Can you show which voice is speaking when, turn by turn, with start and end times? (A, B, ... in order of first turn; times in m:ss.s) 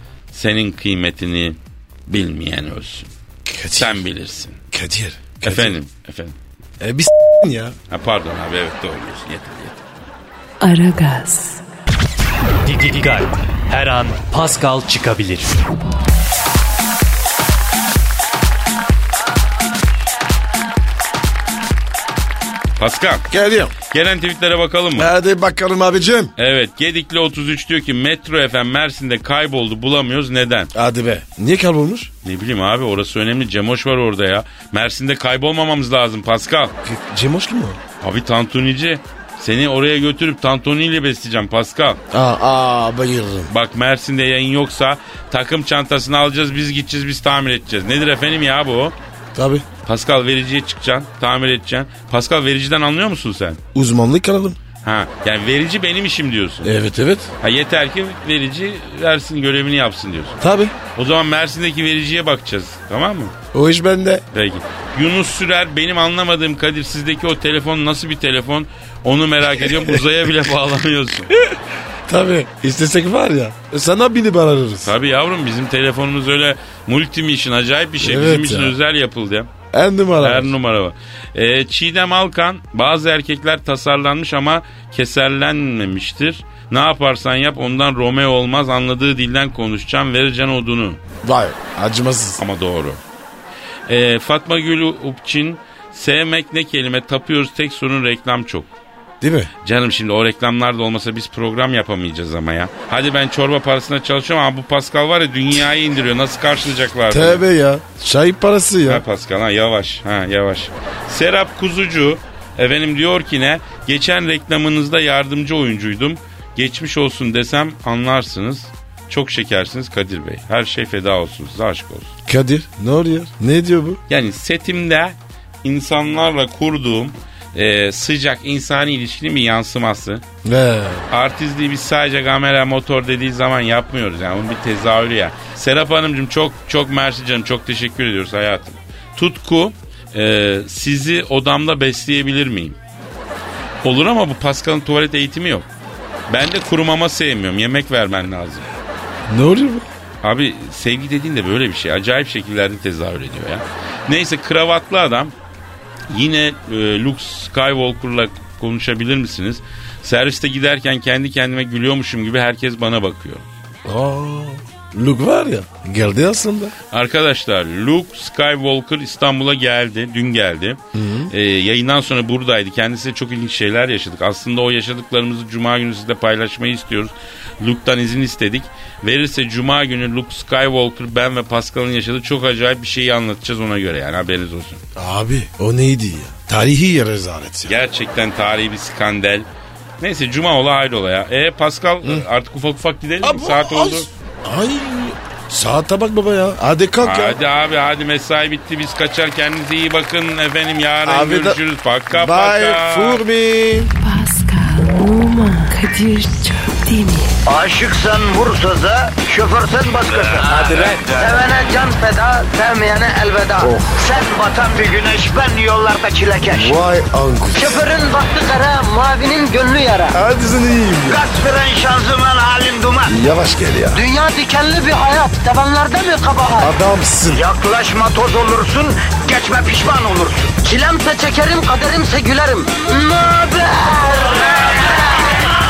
0:00.3-0:03.1 A
0:03.4-0:04.0 B
0:03.7-0:04.6 A
0:04.7-0:05.8 B
0:05.4-0:06.4 A
0:06.8-0:07.8 B
0:07.9-0:09.8 A
0:10.6-0:11.6 C
0:12.6-0:15.5 D
0:22.8-0:23.3 A
0:23.3-0:23.7 B
0:23.9-0:25.1 A
0:25.0-0:26.3 B
0:26.4-0:30.7 A
0:30.7-0:32.1 B
0:32.2-0:36.7 A
0:36.8-0:37.8 B
0:38.0-0:42.0 A
0:42.1-0:43.5 B
0:43.5-0:49.0 A
0:49.3-0:49.6 B
0:49.8-0:53.6 A
0:53.7-0:54.6 B
0:54.8-0:56.7 A
0:56.6-0:57.3 B
0:57.4-1:00.4 A
1:00.4-1:00.7 B
1:00.9-1:03.3 A
1:03.5-1:04.2 B
1:04.3-1:11.3 A
1:11.4-1:14.9 B
1:14.8-1:19.5 A
1:18.0-1:18.8 B
1:19.7-1:20.5 B
1:20.2-1:31.0 A
1:31.2-1:32.4 B
1:32.4-1:33.0 A
1:33.9-1:38.7 A
1:39.2-1:39.5 B
1:39.6-1:47.4 A
1:47.1-1:49.0 B
1:48.9-2:02.1 A
2:02.3-2:04.0 B
2:04.1-2:10.2 A
2:10.4-2:11.1 B
2:11.1-2:22.8 A
2:23.8-2:25.7 A
2:26.3-2:28.7 A
2:29.3-2:29.8 B
2:30.2-2:35.3 A
2:36.1-2:43.4 A
2:43.8-2:46.7 B
2:46.9-3:04.8 A
2:50.9-2:51.3 B
3:04.9-3:07.8 B
3:07.6-3:09.4 A
3:10.0-3:14.1 A
3:13.2-3:17.4 B
3:17.0-3:23.2 A
3:21.0-3:23.9 B
3:24.0-3:27.3 C
3:27.5-3:36.8 E
3:30.5-3:31.0 B
3:33.6-3:34.0 B
3:36.5-3:37.8 B
3:37.5-3:40.2 E
3:40.1-3:41.2 B
3:41.1-3:43.2 E
3:43.0-3:44.0 B
3:43.9-3:46.7 E
3:46.6-3:47.4 B
3:47.3-3:55.2 E